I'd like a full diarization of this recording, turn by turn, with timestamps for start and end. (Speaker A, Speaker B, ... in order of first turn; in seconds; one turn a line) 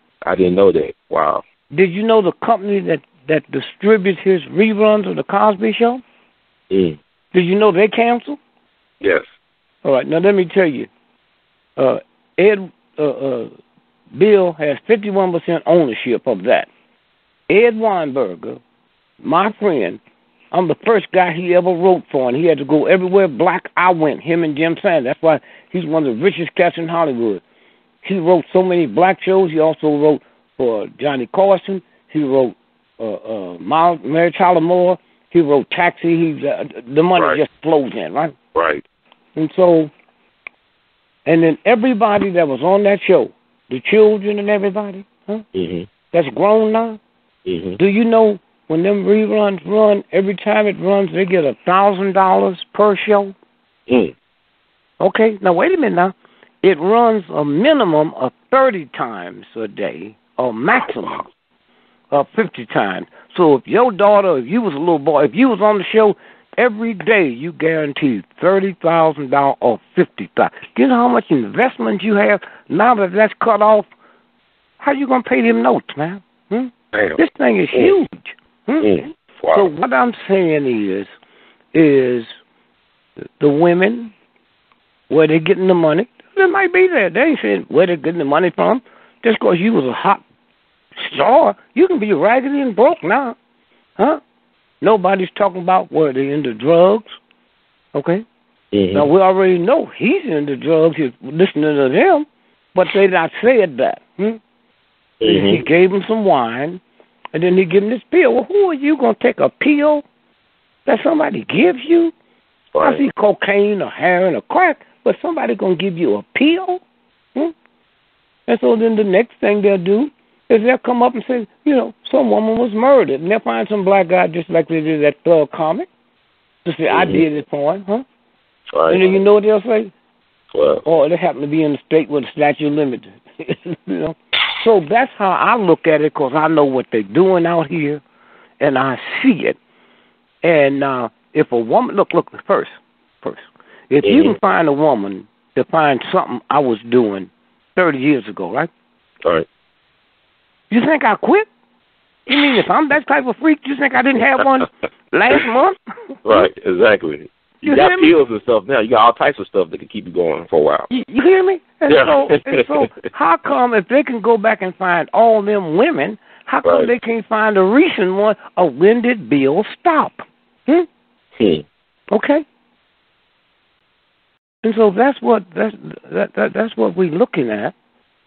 Speaker A: 0.2-1.4
Speaker B: 1.7-6.0
Speaker A: 6.7-7.0
Speaker B: 7.3-8.4
Speaker B: 9.8-10.9
Speaker B: 11.8-13.5
Speaker B: 14.2-16.7
Speaker B: 17.5-18.6
Speaker B: 19.2-20.0
Speaker B: 20.5-27.4
Speaker B: 28.0-38.4
Speaker A: 38.5-38.8
Speaker B: 39.4-39.9
Speaker B: 41.3-45.4
Speaker A: 45.5-45.9
Speaker B: 46.1-47.0
Speaker A: 47.5-47.8
Speaker B: 47.8-53.4
Speaker A: 53.9-54.1
Speaker B: 55.0-61.3
Speaker A: 60.8-61.2
Speaker B: 62.1-73.9
Speaker B: 74.8-81.1
Speaker A: 76.9-77.2
Speaker A: 78.8-79.7
Speaker B: 81.7-82.3
Speaker B: 83.4-84.1
Speaker B: 85.1-90.2
Speaker B: 91.0-93.4
Speaker B: 94.8-97.1
Speaker B: 98.0-98.2
Speaker A: 98.7-99.1
Speaker B: 98.9-104.4
Speaker A: 105.2-105.6
Speaker B: 105.2-106.8
Speaker B: 107.3-110.0
Speaker B: 110.9-112.1
Speaker A: 112.7-113.0
Speaker B: 112.8-116.8
Speaker B: 118.5-125.9
Speaker B: 126.7-128.0
Speaker A: 126.9-127.2
Speaker A: 128.7-129.2
Speaker B: 128.9-129.9
Speaker A: 130.5-130.8
Speaker B: 130.8-138.0
Speaker B: 138.6-139.6
Speaker B: 140.4-148.7
Speaker A: 144.0-144.3
Speaker B: 150.7-151.5
Speaker B: 152.3-156.5
Speaker A: 156.2-160.9
Speaker B: 157.6-158.1
Speaker B: 160.9-170.9
Speaker A: 161.9-162.9
Speaker A: 166.6-166.9
Speaker A: 171.4-171.6
Speaker B: 172.1-172.4
Speaker B: 174.6-177.7